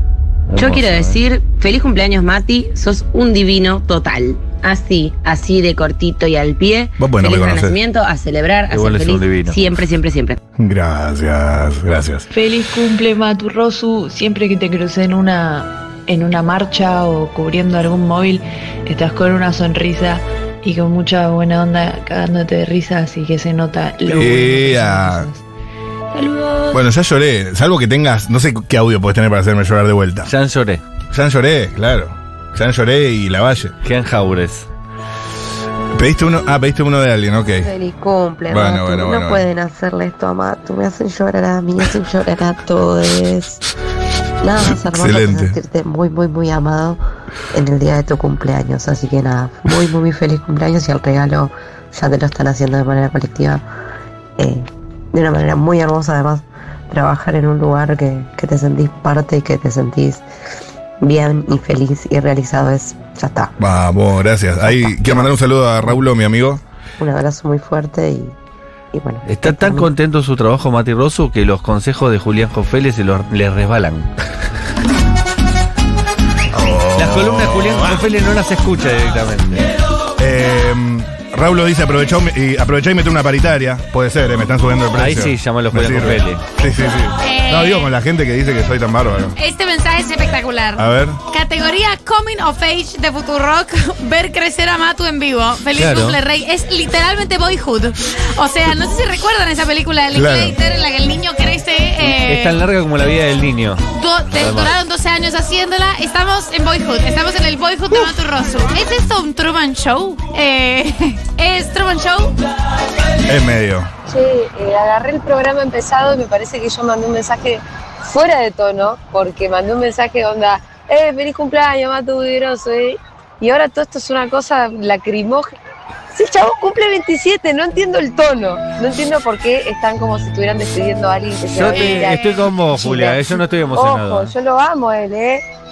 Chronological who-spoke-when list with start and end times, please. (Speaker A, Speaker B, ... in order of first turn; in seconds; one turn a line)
Speaker A: 0.5-1.2
Speaker B: 0.5-10.4
Speaker C: 7.0-7.8
Speaker A: 8.7-9.6
Speaker C: 10.6-12.3
Speaker D: 12.3-25.4
Speaker C: 24.1-25.3
Speaker D: 26.1-26.8
Speaker C: 26.7-30.3
Speaker A: 30.2-30.8
Speaker C: 31.1-33.7
Speaker A: 33.8-34.7
Speaker C: 35.9-37.7
Speaker E: 37.6-43.6
Speaker C: 38.5-39.5
Speaker E: 44.4-47.0
Speaker C: 44.8-45.5
Speaker E: 47.5-53.6
Speaker E: 54.4-60.2
Speaker E: 61.0-63.6
Speaker C: 63.6-66.6
Speaker E: 64.6-66.0
Speaker E: 67.0-68.3
Speaker E: 68.9-69.9
Speaker A: 69.2-74.1
Speaker C: 76.5-78.0
Speaker A: 77.0-79.7
Speaker C: 80.2-89.3
Speaker A: 84.9-86.4
Speaker F: 87.2-87.9
Speaker F: 89.3-102.6
Speaker C: 90.8-91.2
Speaker A: 95.8-96.2
Speaker C: 100.1-100.5
Speaker A: 102.0-103.8
Speaker F: 103.9-112.3
Speaker A: 104.3-104.7
Speaker C: 113.3-113.9
Speaker G: 114.1-125.5
Speaker G: 126.1-135.4
Speaker A: 131.5-134.3
Speaker F: 131.7-132.5